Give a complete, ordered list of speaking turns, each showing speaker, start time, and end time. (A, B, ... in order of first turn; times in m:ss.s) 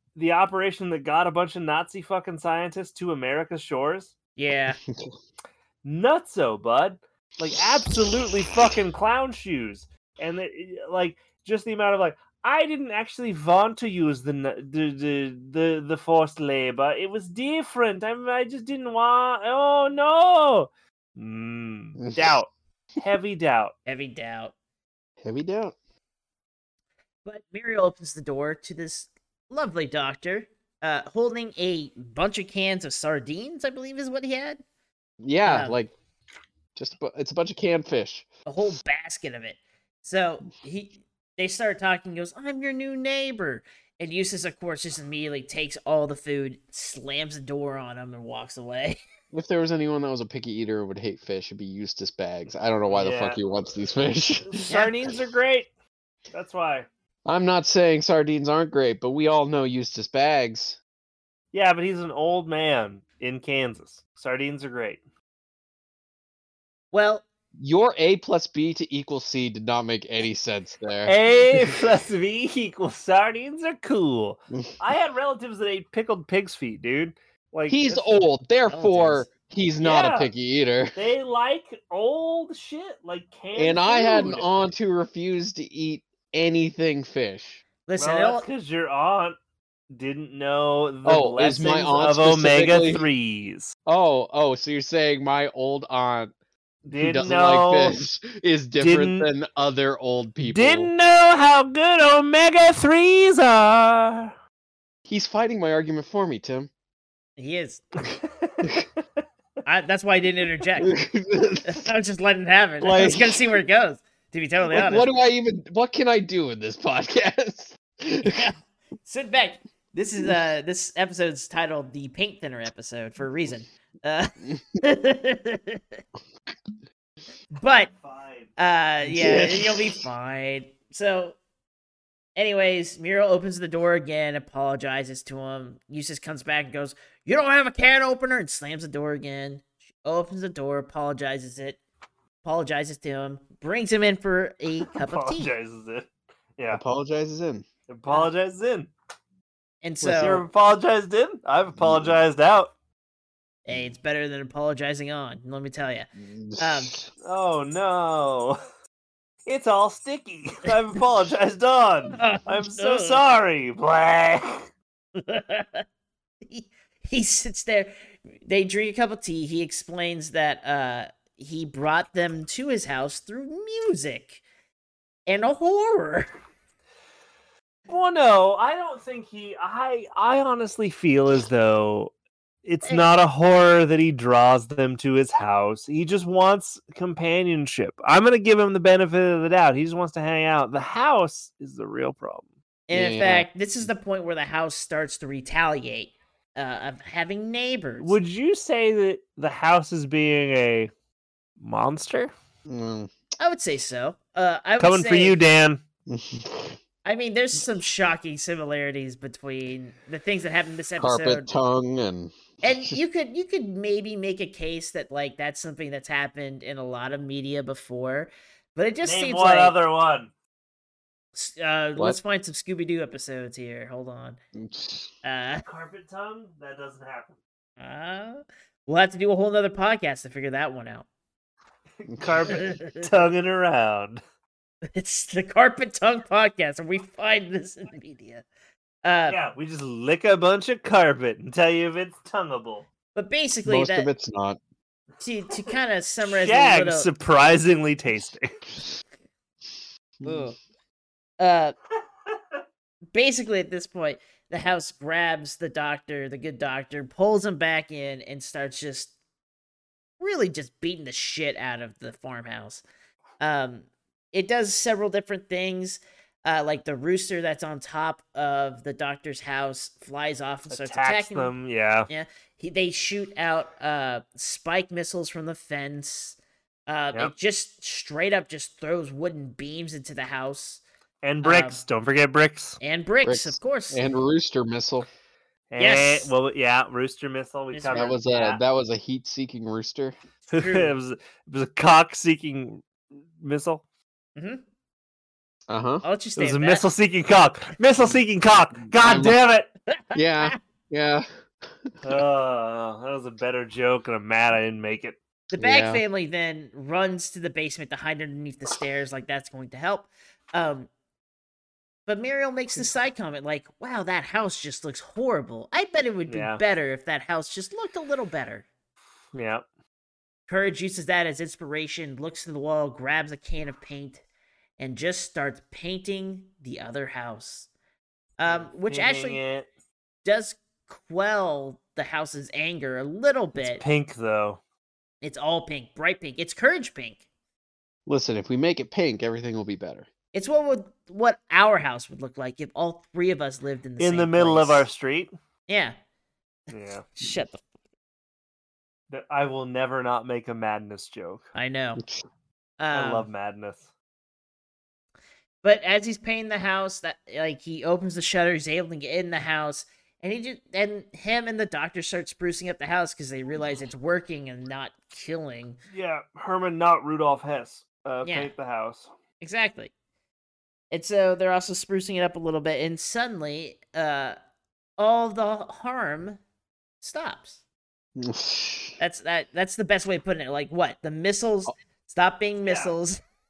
0:00.2-0:04.2 A
0:04.4-0:04.8 B
0:05.8-0:23.8 A
0:23.9-0:24.5 B
0:25.2-0:25.8 C
0:27.3-0:34.6 B
0:35.2-0:35.9 C
0:35.5-0:35.8 B
0:36.8-0:38.3 C
0:38.5-0:49.0 B
0:49.3-0:54.7 C
0:52.9-0:53.4 A
0:54.4-0:55.7 A
0:56.3-0:56.9 A
0:57.3-1:00.8 C
1:01.5-1:05.0 A
1:06.9-1:07.2 B
1:07.6-1:11.1 C
1:11.1-1:17.8 A
1:17.7-1:21.0 C
1:18.7-1:19.3 B
1:19.8-1:20.3 A
1:21.0-1:24.5 A
1:23.6-1:27.6 C
1:27.9-1:28.5 B
1:28.0-1:29.4 A
1:29.9-1:33.7 A
1:31.0-1:33.1 C
1:33.9-1:36.3 C
1:36.8-1:38.0 A
1:36.9-1:40.9 C
1:38.8-1:39.3 A
1:40.4-1:44.3 A
1:45.1-1:46.7 C
1:47.4-1:47.8 B
1:48.4-1:49.0 A
1:49.7-1:51.0 B
1:50.8-1:51.9 C
1:51.7-1:55.1 B
1:52.8-1:53.3 C
1:52.9-1:53.2 A
1:54.7-1:58.5 C
1:58.2-2:06.0 B
2:07.5-2:07.9 B
2:08.0-2:08.5 A
2:08.6-2:11.4 B
2:09.0-2:10.0 C
2:12.4-2:21.8 B
2:22.4-2:25.5 B
2:24.8-2:26.8 A
2:26.7-2:27.7 C
2:27.9-2:28.9 A
2:29.8-2:30.4 B
2:30.0-2:30.4 C
2:30.2-2:32.7 A
2:31.8-2:32.2 C
2:33.7-2:36.1 B
2:36.2-2:37.1 C
2:36.6-2:37.0 B
2:37.2-2:38.6 A
2:39.5-2:44.7 A
2:42.1-2:43.2 B
2:45.2-2:45.8 B
2:46.5-2:54.4 B
2:55.3-2:56.3 B
2:57.9-3:02.1 A
3:02.6-3:12.5 A
3:02.8-3:03.1 B
3:12.9-3:18.2 B
3:12.9-3:13.8 C
3:18.0-3:20.9 A
3:21.6-3:22.3 A
3:22.7-3:23.1 C
3:23.4-3:25.4 B
3:24.8-3:25.8 A
3:26.1-3:26.8 C
3:27.0-3:31.5 B
3:31.0-3:33.0 C
3:32.6-3:39.8 B
3:39.0-3:40.3 A
3:41.4-3:44.4 B
3:44.6-3:45.1 C
3:45.2-3:45.6 B
3:45.7-3:47.4 A
3:47.8-3:51.1 B
3:52.0-3:54.2 A
3:52.1-3:52.6 C
3:52.5-3:53.1 B
3:55.0-3:58.4 B
3:59.0-3:59.4 B
3:59.3-4:02.9 A
4:03.2-4:04.1 B
4:03.6-4:04.6 C
4:05.2-4:07.1 B
4:06.2-4:08.6 A
4:10.2-4:10.5 C
4:10.2-4:10.6 B
4:11.4-4:11.8 B
4:12.3-4:12.6 A
4:13.1-4:19.1 B
4:20.2-4:22.8 B
4:23.4-4:31.5 B
4:30.7-4:32.1 A
4:32.1-4:36.4 B
4:36.9-4:40.8 B
4:41.2-4:42.8 A
4:41.4-4:41.8 B
4:42.8-4:44.0 B
4:43.2-4:45.1 C
4:45.7-4:48.6 A
4:45.8-4:46.3 B
4:47.7-4:48.2 B
4:47.9-4:50.2 C
4:50.5-4:50.9 B
4:50.5-4:53.8 A
4:54.4-4:54.6 B
4:55.7-4:56.0 C
4:56.0-4:56.8 B
4:56.4-4:59.7 A
4:58.8-4:59.4 C
4:59.9-5:00.6 B
5:00.2-5:01.3 C
5:02.0-5:05.2 A
5:05.5-5:10.9 B
5:05.6-5:06.0 C
5:12.1-5:18.6 B
5:16.3-5:16.6 A
5:19.3-5:19.6 A
5:20.5-5:24.2 B
5:24.8-5:27.7 B
5:28.4-5:29.4 B
5:28.5-5:29.7 A
5:30.2-5:33.8 B
5:33.6-5:34.6 A
5:35.2-5:37.2 B
5:38.1-5:40.1 C
5:40.3-5:44.9 B
5:44.0-5:45.3 A
5:45.7-5:46.0 B
5:46.7-5:47.1 A
5:47.1-5:47.6 B
5:49.1-5:51.5 A
5:51.6-5:52.0 B
5:52.0-5:52.2 C
5:52.8-5:53.3 B
5:52.9-5:53.9 A
5:55.6-6:05.8 B
6:05.9-6:09.1 A
6:08.2-6:08.5 B
6:09.4-6:09.9 B
6:10.9-6:14.4 B
6:15.0-6:16.4 B
6:17.0-6:17.6 B
6:18.2-6:19.0 C
6:19.0-6:23.2 B
6:22.6-6:22.9 A